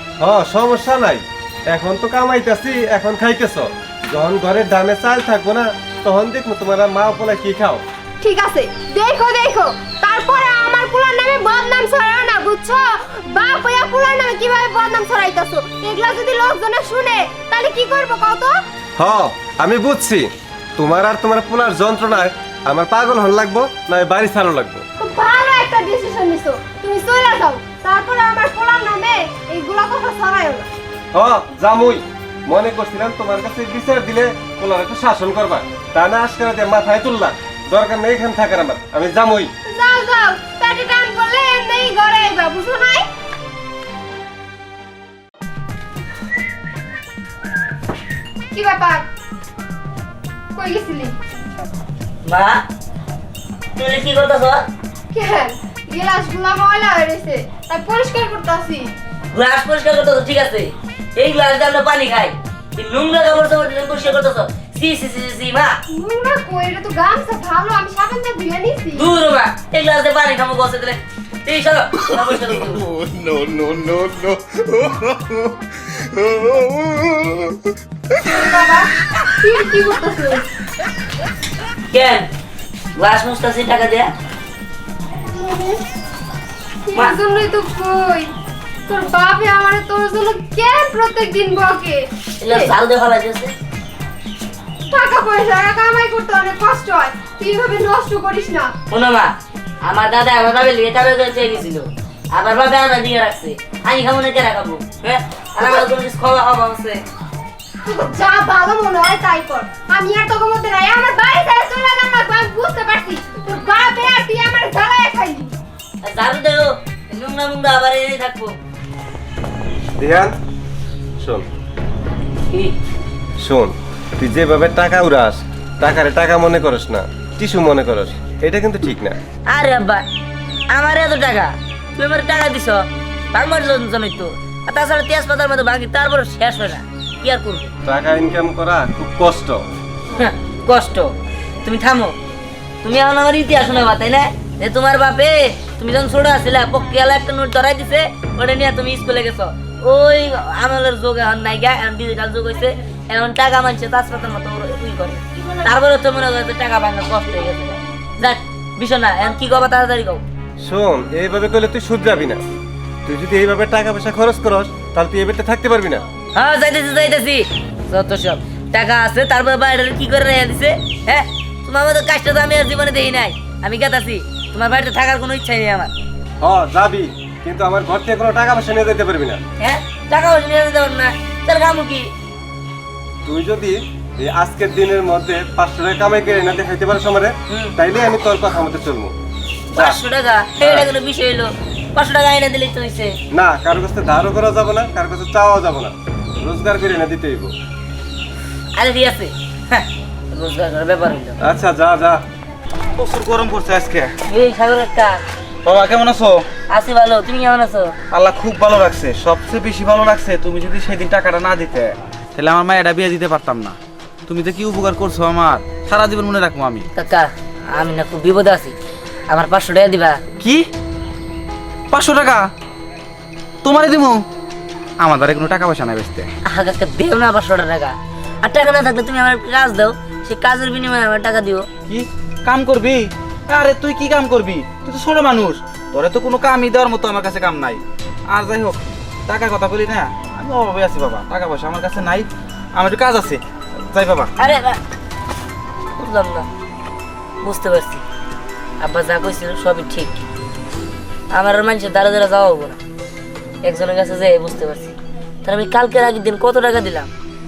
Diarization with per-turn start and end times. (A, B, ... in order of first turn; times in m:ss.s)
0:00.2-0:07.8 A
0:08.2-0:18.5 B
0:19.0-0:24.8 A
0:25.0-0:30.7 B
0:31.1-0:39.5 A
0:39.7-0:43.0 B
0:48.5-0:49.1 B
0:50.6-0:51.1 B
0:52.2-0:52.6 C
0:53.8-0:54.6 C
0:55.1-0:58.9 B
0:59.3-1:05.8 C
1:05.9-1:09.1 B
1:08.9-1:12.9 C
1:12.7-1:15.6 D
1:16.1-1:17.6 D
1:18.3-1:18.9 B
1:19.4-1:20.4 B
1:21.9-1:22.3 C
1:23.0-1:24.1 C
1:25.3-1:25.8 B
1:26.9-1:28.3 B
1:28.9-1:32.7 B
1:32.4-1:33.5 C
1:34.9-1:38.7 B
1:38.9-1:47.0 C
1:47.9-1:55.5 B
1:56.0-1:58.6 C
2:00.0-2:00.4 A
2:01.2-2:01.4 A
2:03.4-2:09.2 A
2:09.5-2:10.0 C
2:10.7-2:17.7 C
2:17.8-2:19.6 A
2:20.2-2:22.2 C
2:22.8-2:40.2 C
2:40.6-2:42.4 A
2:43.1-2:46.0 A
2:46.3-2:55.9 C
2:56.4-2:59.4 A
2:59.6-3:02.1 C
3:03.2-3:09.1 A
3:07.5-3:07.7 C
3:09.7-3:13.2 C
3:09.7-3:10.0 A
3:10.6-3:10.9 A
3:13.3-3:17.5 A
3:18.8-3:21.4 C
3:21.4-3:22.2 A
3:23.0-3:24.1 E
3:24.3-3:25.2 C
3:25.6-3:26.4 E
3:26.7-3:28.0 C
3:28.1-3:36.9 E
3:37.0-3:38.8 C
3:39.3-3:40.2 C
3:40.4-3:40.7 E
3:41.9-3:42.4 E
3:43.6-3:44.2 E
3:45.0-3:46.3 E
3:46.5-3:51.7 C
3:51.9-4:04.3 E
4:04.4-4:04.8 C
4:06.0-4:06.5 C
4:07.4-4:08.0 C
4:08.8-4:10.2 C
4:11.3-4:12.8 C
4:13.6-4:17.1 C